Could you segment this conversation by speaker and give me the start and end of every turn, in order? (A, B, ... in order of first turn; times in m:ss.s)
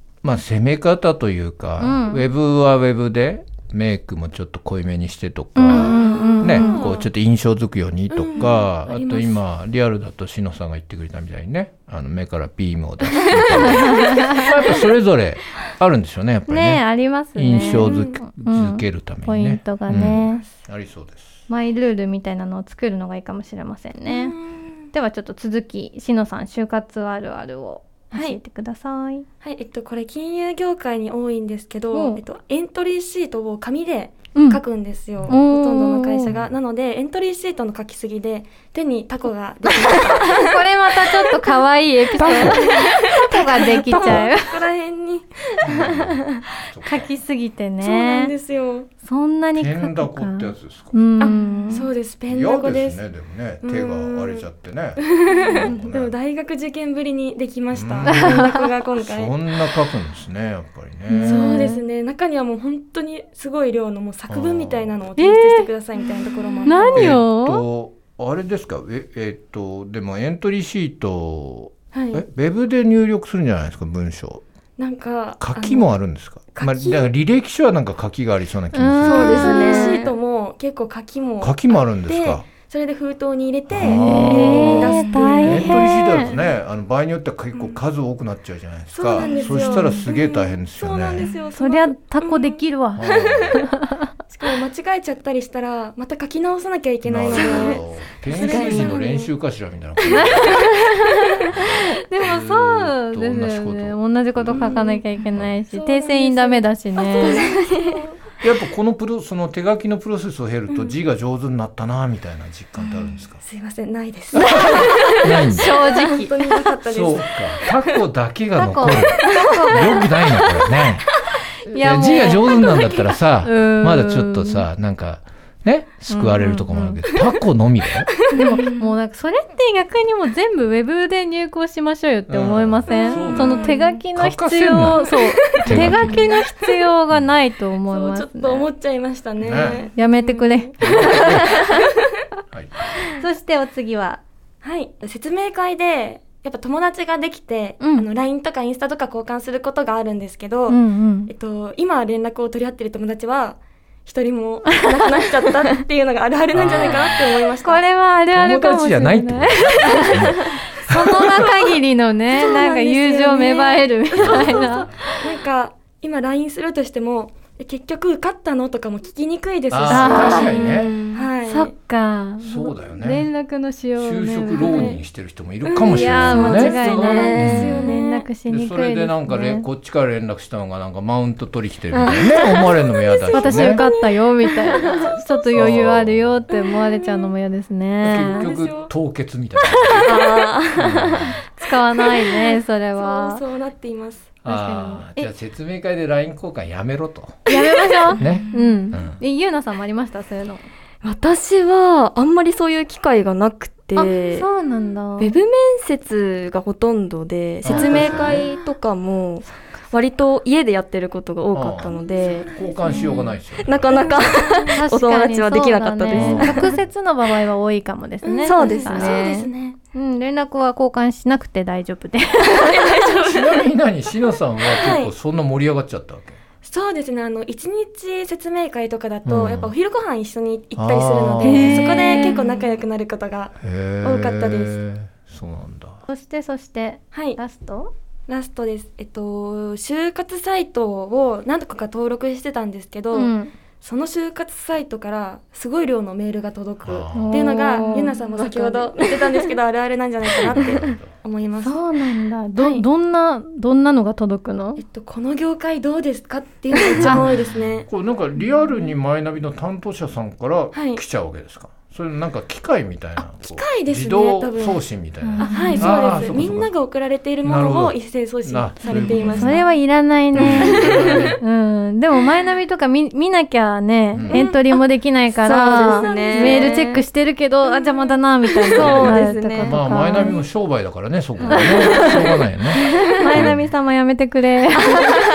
0:00.2-0:21.5 A
0:01.8-0:02.3 B
0:05.6-0:06.9 B
0:05.6-0:07.1 C
0:08.1-0:09.4 C
0:13.2-0:14.1 C
0:13.5-0:14.5 B
0:16.5-0:20.4 B
0:17.6-0:18.0 C
0:21.5-0:24.4 B
0:24.1-0:24.8 C
0:24.9-0:29.3 B
0:28.1-0:28.4 C
0:29.4-0:41.5 C
0:31.9-0:32.2 B
0:34.4-0:34.6 B
0:35.3-0:36.3 B
0:36.3-0:36.5 A
0:40.0-0:44.6 B
0:42.2-0:45.9 C
0:43.9-0:44.2 A
0:45.6-0:47.1 A
0:46.9-0:48.3 B
0:47.8-0:48.9 C
0:49.0-0:51.9 B
0:49.6-0:51.0 A
0:51.2-0:53.0 C
0:51.3-0:51.8 D
0:52.3-0:56.1 A
0:53.6-0:54.5 C
0:55.0-0:59.4 C
0:55.4-0:55.7 B
0:57.7-0:58.3 A
0:58.1-0:58.6 B
0:59.0-1:01.6 A
1:01.1-1:01.8 B
1:01.2-1:07.2 C
1:04.3-1:05.0 A
1:05.2-1:05.7 B
1:06.7-1:07.6 B
1:06.9-1:14.4 A
1:11.9-1:12.2 C
1:14.8-1:16.0 C
1:15.4-1:19.5 A
1:16.5-1:17.1 C
1:18.7-1:20.1 B
1:19.0-1:26.4 C
1:19.1-1:20.1 D
1:21.4-1:22.5 A
1:23.7-1:31.3 A
1:24.0-1:26.4 B
1:24.2-1:25.7 D
1:27.5-1:27.8 C
1:28.9-1:32.6 C
1:29.2-1:30.1 D
1:31.5-1:33.9 B
1:32.9-1:33.6 A
1:33.2-1:33.6 C
1:34.3-1:39.3 C
1:37.0-1:40.8 A
1:37.3-1:39.0 D
1:40.1-1:40.5 C
1:40.1-1:47.5 B
1:41.5-1:45.6 A
1:44.5-1:45.0 C
1:45.7-1:48.2 C
1:47.1-1:48.0 D
1:48.4-1:53.4 A
1:53.4-1:57.8 C
1:54.3-1:55.8 A
1:55.5-1:56.3 B
1:56.9-2:01.1 A
1:58.6-2:00.1 B
2:01.7-2:02.9 B
2:01.7-2:03.0 C
2:01.7-2:08.2 A
2:03.4-2:04.7 B
2:06.1-2:07.0 B
2:08.1-2:08.4 C
2:08.3-2:18.7 B
2:12.3-2:16.3 A
2:12.9-2:14.0 C
2:15.6-2:16.4 C
2:17.9-2:21.8 C
2:19.4-2:19.9 A
2:19.9-2:21.6 B
2:20.8-2:21.5 A
2:23.1-2:24.2 B
2:24.6-2:37.8 C
2:27.8-2:28.1 B
2:30.7-2:31.3 B
2:36.5-2:37.3 A
2:37.6-2:45.3 B
2:38.3-2:41.5 A
2:42.3-2:50.5 C
2:44.2-2:44.9 A
2:49.7-2:51.0 A
2:49.9-2:50.9 B
2:50.5-2:51.3 D
2:51.1-2:51.7 C
2:51.4-2:55.0 B
2:52.4-2:53.3 A
2:54.0-2:57.8 A
2:54.7-2:55.0 C
2:55.6-2:58.1 C
2:55.8-2:59.6 B
2:56.9-2:58.2 D
2:58.5-3:03.8 A
3:01.9-3:03.0 D
3:03.1-3:05.7 C
3:03.3-3:08.5 B
3:05.5-3:06.5 A
3:06.6-3:07.3 C
3:08.0-3:11.4 A
3:08.1-3:08.9 C
3:10.0-3:11.3 D
3:11.6-3:13.4 B
3:12.9-3:14.3 C
3:14.4-3:17.4 A
3:14.4-3:15.3 B
3:17.5-3:20.6 B
3:18.2-3:18.9 D
3:18.2-3:19.2 A
3:21.0-3:24.5 D
3:24.0-3:25.4 B
3:25.2-3:32.5 D
3:27.6-3:28.4 A
3:27.7-3:28.5 C
3:31.5-3:34.4 A
3:32.0-3:33.3 C
3:33.6-3:36.7 D
3:33.9-3:34.8 C
3:34.6-3:39.3 B
3:36.1-3:36.8 A
3:38.2-3:39.8 C
3:38.4-3:39.5 D
3:39.9-3:42.7 B
3:42.4-3:43.1 D
3:42.6-3:43.7 C
3:43.2-3:46.4 A
3:44.7-3:45.1 C
3:46.6-3:54.8 C
3:49.3-3:49.7 A
3:50.8-3:51.9 A
3:51.4-3:52.4 B
3:52.1-3:52.6 D
3:53.6-3:56.0 A
3:56.1-3:57.9 B
3:57.1-3:57.4 C
3:58.3-4:11.8 C
4:03.1-4:03.5 B
4:06.8-4:07.5 A
4:07.1-4:08.3 B
4:08.3-4:09.5 D
4:10.4-4:11.1 A
4:11.6-4:14.8 B
4:12.6-4:12.8 C
4:14.8-4:17.9 C
4:17.0-4:26.7 A
4:20.7-4:21.0 C
4:23.4-4:24.9 C
4:25.2-4:26.4 B
4:25.4-4:29.7 C
4:27.4-4:29.6 A
4:28.8-4:40.4 B
4:30.4-4:31.4 A
4:30.5-4:31.4 C
4:34.1-4:34.4 A
4:35.4-4:37.0 D
4:35.8-4:36.9 C
4:38.7-4:39.8 D
4:38.8-4:43.7 A
4:41.4-4:43.5 D
4:41.5-4:42.2 B
4:43.2-4:45.2 B
4:44.8-4:45.1 D